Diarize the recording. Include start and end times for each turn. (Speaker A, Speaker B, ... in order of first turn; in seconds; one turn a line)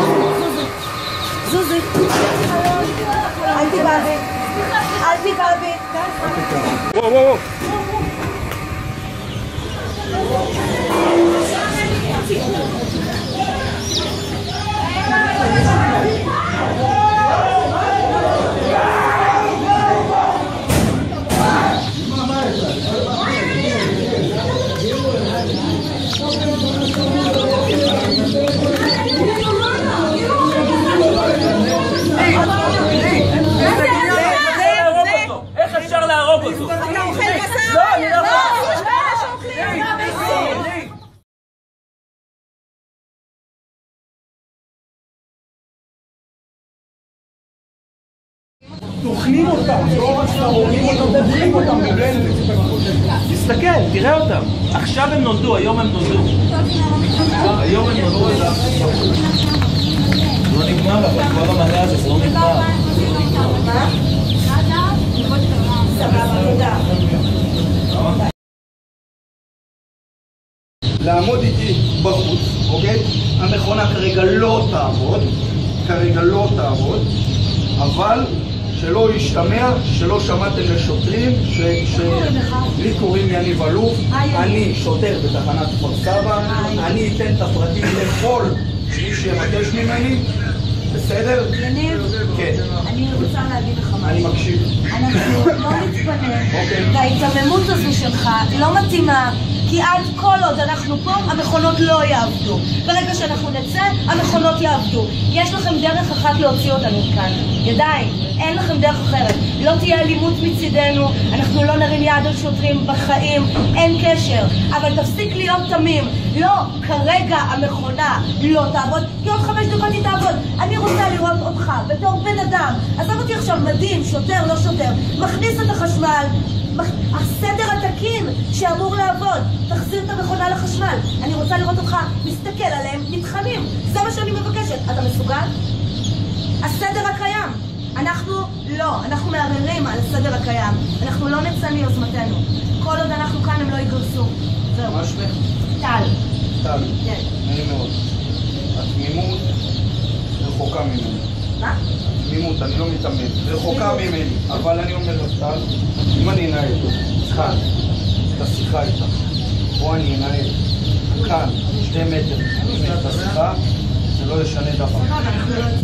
Speaker A: 1.4-2.0
Speaker A: 3.3-6.2
Speaker B: 33.1-37.2
Speaker A: 33.7-35.3
Speaker A: 36.6-39.4
Speaker B: 37.9-38.4
Speaker C: 49.1-52.5
Speaker A: 49.6-51.1
Speaker B: 53.2-56.5
Speaker B: 57.3-59.1
Speaker B: 60.4-62.8
Speaker A: 62.4-64.0
Speaker A: 65.3-67.0
Speaker C: 71.0-77.1
Speaker C: 77.8-90.3
Speaker A: 81.9-82.8
Speaker A: 84.1-84.7
Speaker A: 86.4-86.9
Speaker C: 90.9-91.6
Speaker A: 91.5-135.6
Speaker C: 92.2-92.8
Speaker C: 94.0-95.5
Speaker C: 96.5-97.0
Speaker A: 136.6-145.1
Speaker C: 144.9-145.4
Speaker A: 145.7-146.2
Speaker C: 146.6-148.0
Speaker A: 147.0-147.3
Speaker C: 148.7-149.5
Speaker C: 150.4-151.3
Speaker C: 152.1-157.7
Speaker C: 158.3-159.2
Speaker C: 159.8-160.6
Speaker C: 161.1-163.6
Speaker C: 164.1-165.2
Speaker A: 165.3-165.6